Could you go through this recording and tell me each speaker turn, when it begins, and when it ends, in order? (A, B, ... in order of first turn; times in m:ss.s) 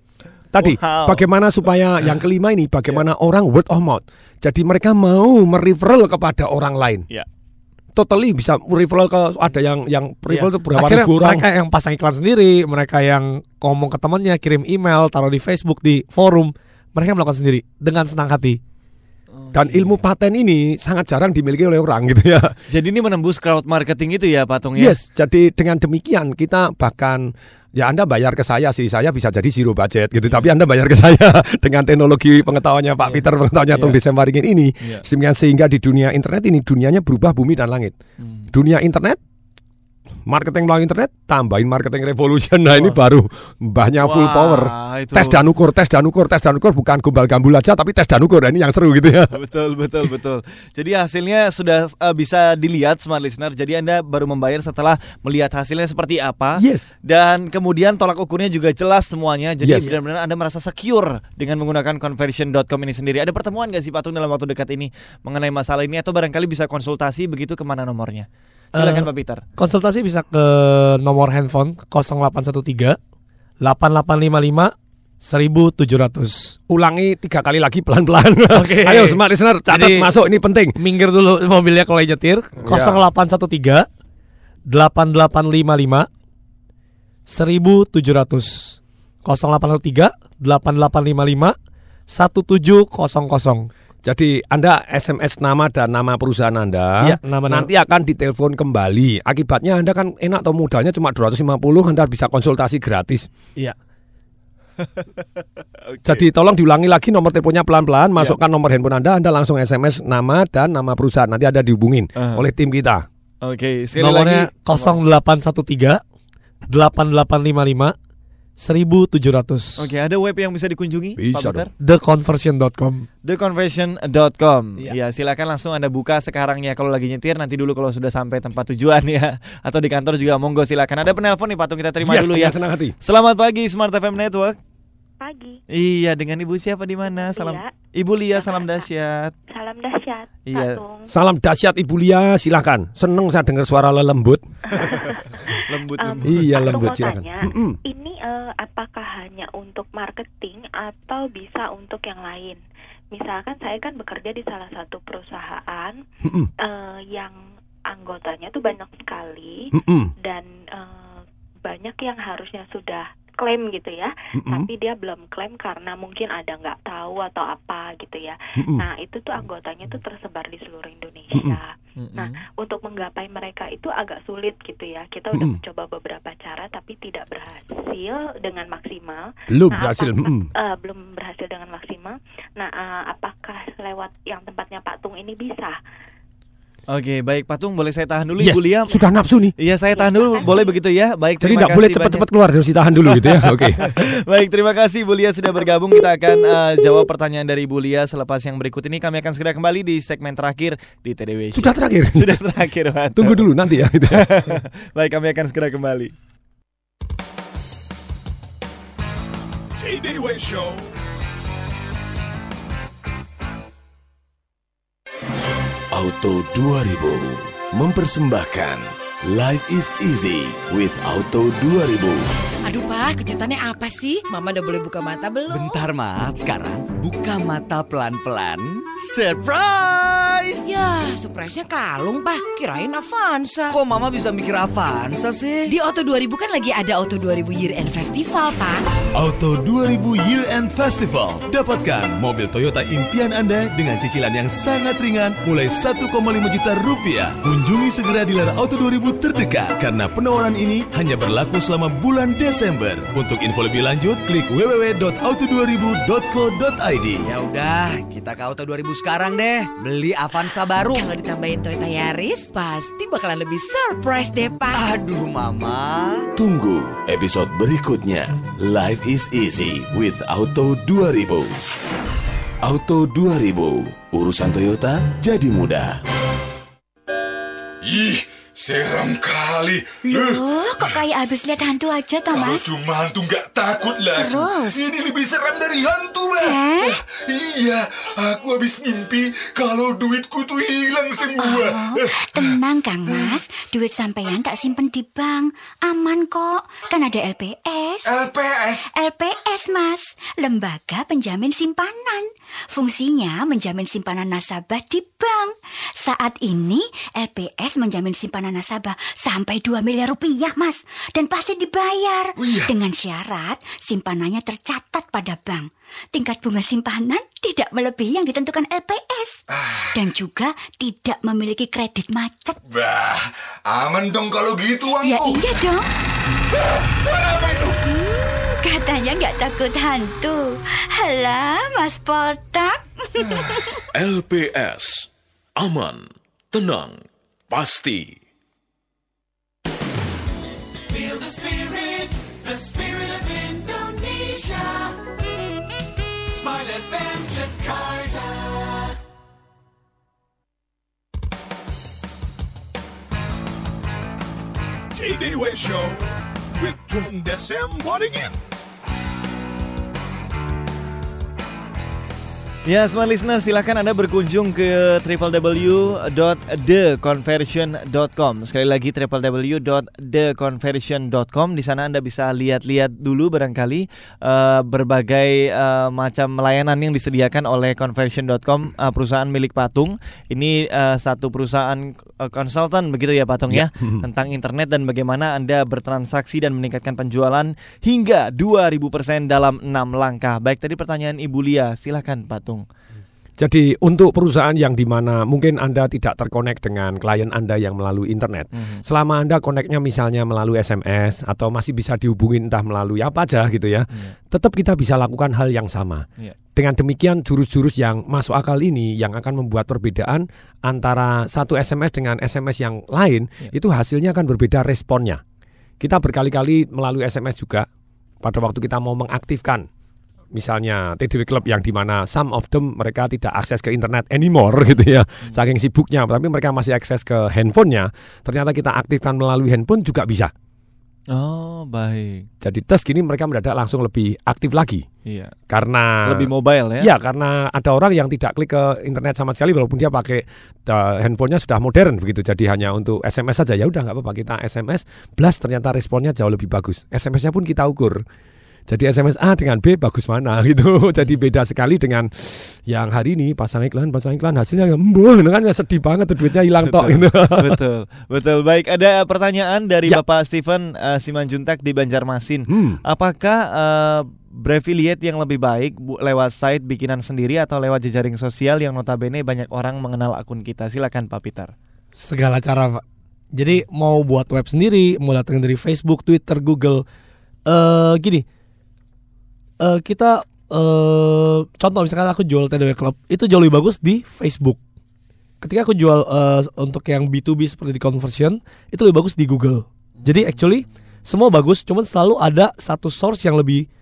0:00.5-0:07.0 A
0:00.6-0:01.2 B
0:07.9-0:11.4 A
0:10.3-0:18.6 C
0:19.3-0:20.0 B
0:19.5-0:22.5 A
0:22.7-0:24.9 B
0:24.8-0:37.9 A
0:38.2-0:38.5 B
0:38.5-0:39.2 A
0:40.3-0:49.3 A
0:44.0-0:45.4 B
0:49.3-1:09.4 B
0:56.6-0:56.9 A
0:59.6-0:59.9 A
1:08.8-1:13.0 C
1:13.6-1:16.6 C
1:16.7-1:20.8 A
1:18.5-1:20.1 C
1:20.8-1:23.9 C
1:22.6-1:23.0 A
1:24.7-1:26.1 C
1:27.3-1:31.5 C
1:32.1-1:33.7 C
1:34.0-1:43.3 A
1:37.0-1:37.7 C
1:45.8-1:46.2 B
1:46.0-1:53.0 A
1:52.2-1:52.4 B
1:53.4-1:55.0 B
1:54.0-1:56.0 C
1:56.7-1:57.9 C
1:58.6-1:59.9 C
1:59.8-2:01.7 B
2:01.2-2:01.6 A
2:01.8-2:03.1 C
2:03.2-2:14.6 B
2:12.0-2:12.9 A
2:15.2-2:15.6 D
2:15.7-2:19.3 B
2:17.0-2:17.7 D
2:18.3-2:18.9 D
2:19.5-2:21.1 D
2:20.5-2:20.8 B
2:21.1-2:24.4 A
2:24.7-2:32.6 D
2:25.6-2:26.6 B
2:26.2-2:27.8 A
2:33.1-2:36.0 D
2:36.2-2:36.5 A
2:36.6-2:37.4 D
2:37.9-2:39.7 D
2:39.7-2:40.1 A
2:40.2-3:05.8 D
2:44.3-2:44.7 A
2:48.6-2:48.9 A
2:51.3-2:51.6 A
2:52.0-2:52.3 B
2:55.3-2:55.6 A
2:59.5-3:00.5 A
3:06.9-3:09.0 B
3:08.4-3:09.5 A
3:09.6-3:12.2 B
3:09.9-3:10.8 D
3:11.4-3:13.9 A
3:13.0-3:23.4 B
3:21.5-3:22.4 A
3:23.2-3:24.4 A
3:24.1-3:26.1 B
3:29.8-3:31.0 E
3:35.9-3:42.2 F
3:42.6-3:45.7 G
3:45.5-3:50.7 H
3:50.6-3:53.8 G
3:53.7-3:55.7 H
3:55.7-3:58.8 G
3:59.1-4:17.2 I
4:17.2-4:21.0 H
4:20.8-4:24.8 G
4:24.7-4:26.2 H
4:26.4-4:31.6 F
4:32.6-4:36.0 F
4:37.8-4:41.0 J
4:40.0-4:42.7 K
4:42.3-4:52.4 J
4:44.1-4:44.8 K
4:46.4-4:47.0 K
4:51.2-4:58.2 K
4:58.1-4:58.8 J
4:58.8-5:22.6 K
5:22.7-5:25.4 J
5:25.0-5:25.9 K
5:27.0-5:27.7 J
5:27.8-5:33.8 K
5:33.9-5:38.2 J
5:40.9-5:45.0 L
5:46.2-5:48.9 L
5:54.9-5:58.4 E
6:02.6-6:32.6 B
6:23.5-6:24.0 A
6:33.4-6:46.0 A
6:38.5-6:38.8 B
6:46.6-6:55.2 A
6:55.8-6:57.6 A
6:58.2-6:59.6 A
7:00.3-7:10.3 A
7:11.1-7:12.3 B
7:12.4-7:14.8 A
7:15.0-7:15.3 B
7:15.5-7:16.3 A
7:16.0-7:16.9 B
7:16.8-7:28.0 A
7:28.7-7:37.6 A
7:36.6-7:51.5 B
7:42.5-7:42.8 A
7:52.0-7:52.8 C
7:53.3-7:56.8 C
7:57.5-7:58.2 C
7:59.6-8:04.6 C
8:05.4-8:13.7 C
8:10.0-8:10.6 B